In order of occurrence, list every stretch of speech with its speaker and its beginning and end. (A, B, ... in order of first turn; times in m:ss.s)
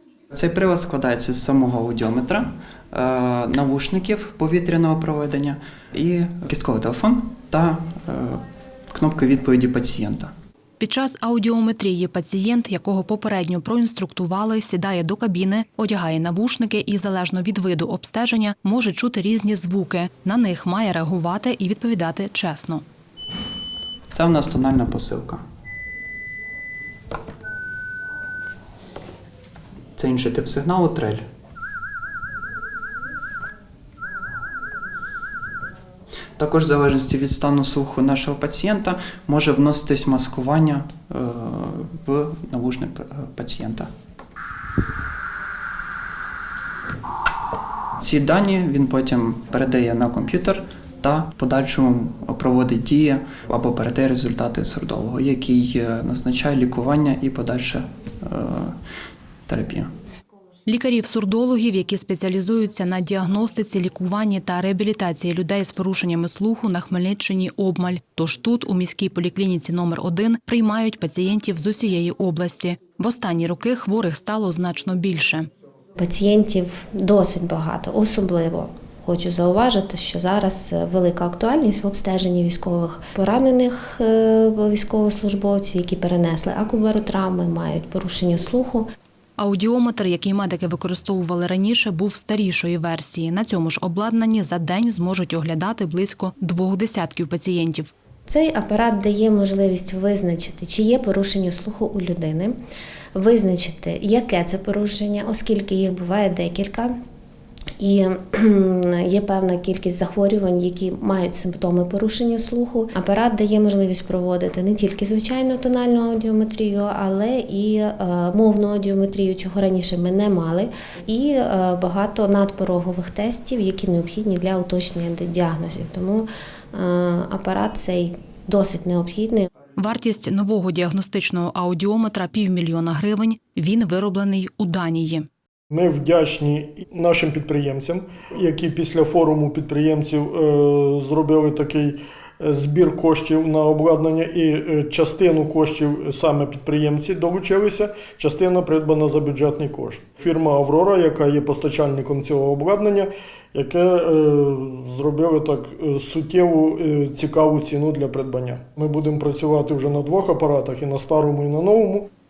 0:00.3-0:10.3 A
0:10.8-0:22.8 B
0:24.1-0:25.4 A
0:30.0-0:31.2 A
0:36.4-0:43.9 A
0:48.0-0:58.8 A
0:59.5-0:59.9 A
1:00.7-1:15.5 B
1:16.0-1:28.9 C
1:29.4-1:37.9 B
1:38.3-1:42.6 C
1:43.1-1:46.9 C
1:47.8-2:09.5 C
2:09.8-2:15.3 B
2:15.7-2:42.1 D